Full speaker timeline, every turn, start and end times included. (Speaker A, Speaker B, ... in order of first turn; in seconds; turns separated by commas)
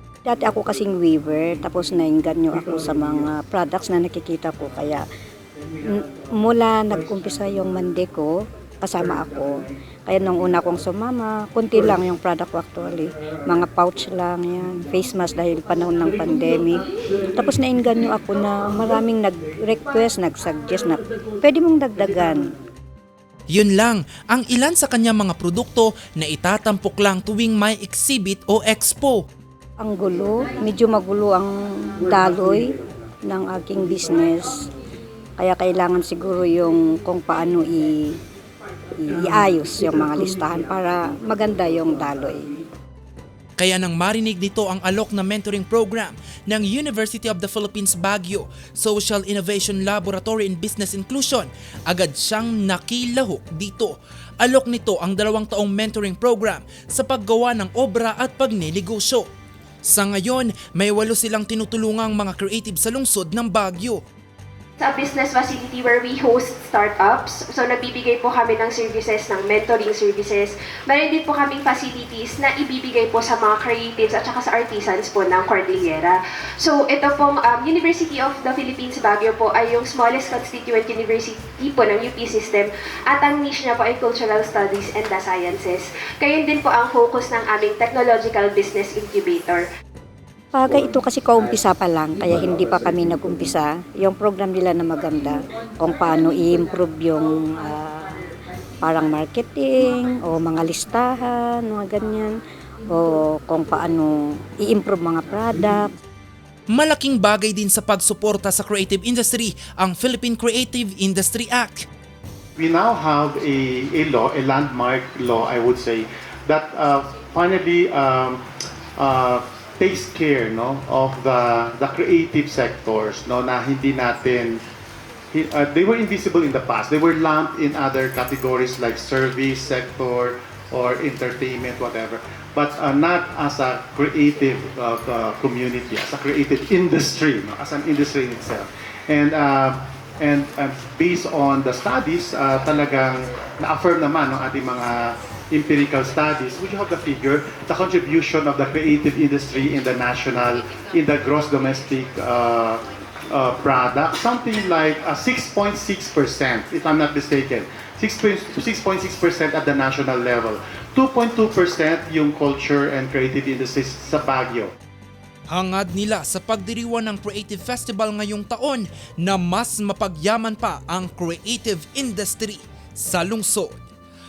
Speaker A: 0.2-5.0, Speaker A: 5.8-22.6, Speaker B: 23.5-29.2, Speaker A: 29.8-32.7, Speaker A: 33.3-34.6, Speaker A: 35.4-38.2, Speaker A: 39.0-42.5, Speaker B: 43.6-59.3, Speaker B: 59.9-64.0, Speaker C: 64.8-89.7, Speaker A: 90.5-98.2, Speaker A: 98.8-102.4, Speaker A: 102.9-105.9, Speaker B: 106.7-111.9, Speaker D: 112.6-118.4, Speaker D: 119.0-124.6, Speaker D: 125.3-164.7, Speaker B: 165.5-173.8